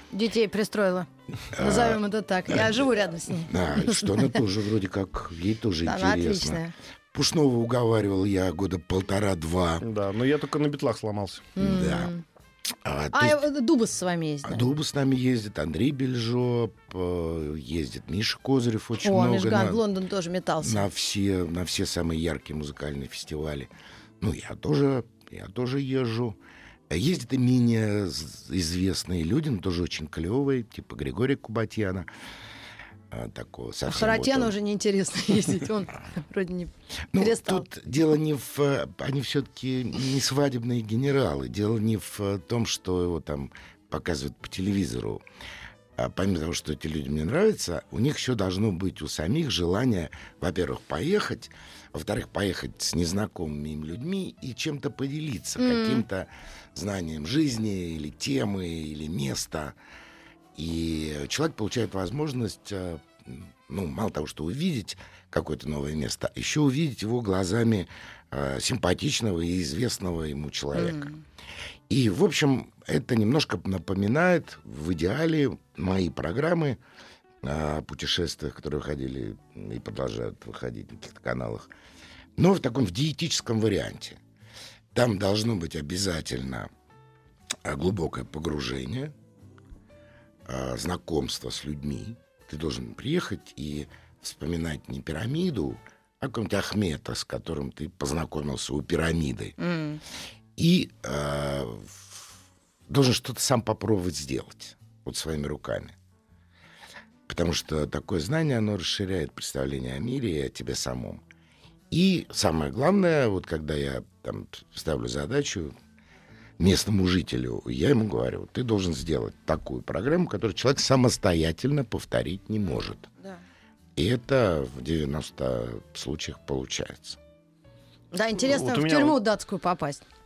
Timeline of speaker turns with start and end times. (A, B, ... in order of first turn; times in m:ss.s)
0:00.1-0:04.3 A
0:01.5-0:02.8 B
0:03.4-0:06.6 B
0:05.8-0:06.7 A
0:07.1-0:09.8 B
0:09.8-0:11.5 C
0:11.6-0:12.2 A
0:11.6-0:12.1 B
0:12.8-0:13.4 B
0:13.1-0:14.7 A
0:14.4-0:19.8 B
0:19.0-0:20.8 A
0:20.6-0:26.4 B
0:26.9-0:32.1 B
0:33.1-0:34.6 B
0:33.9-0:37.7 A
0:37.1-0:45.2 B
0:46.0-0:59.8 B
0:55.6-0:56.0 A
1:00.5-1:11.1 B
1:10.7-1:11.2 A
1:11.9-1:16.8 B
1:17.4-1:21.7 B
1:22.4-1:24.2 B
1:24.9-1:26.7 B
1:27.6-1:29.1 B
1:30.4-1:39.5 B
1:39.6-1:40.0 A
1:40.6-1:42.3 B
1:42.9-1:46.0 B
1:47.3-1:51.2 B
1:51.9-1:55.7 B
1:56.6-2:03.1 B
2:04.0-2:07.2 B
2:08.1-2:10.0 A
2:08.4-2:09.2 C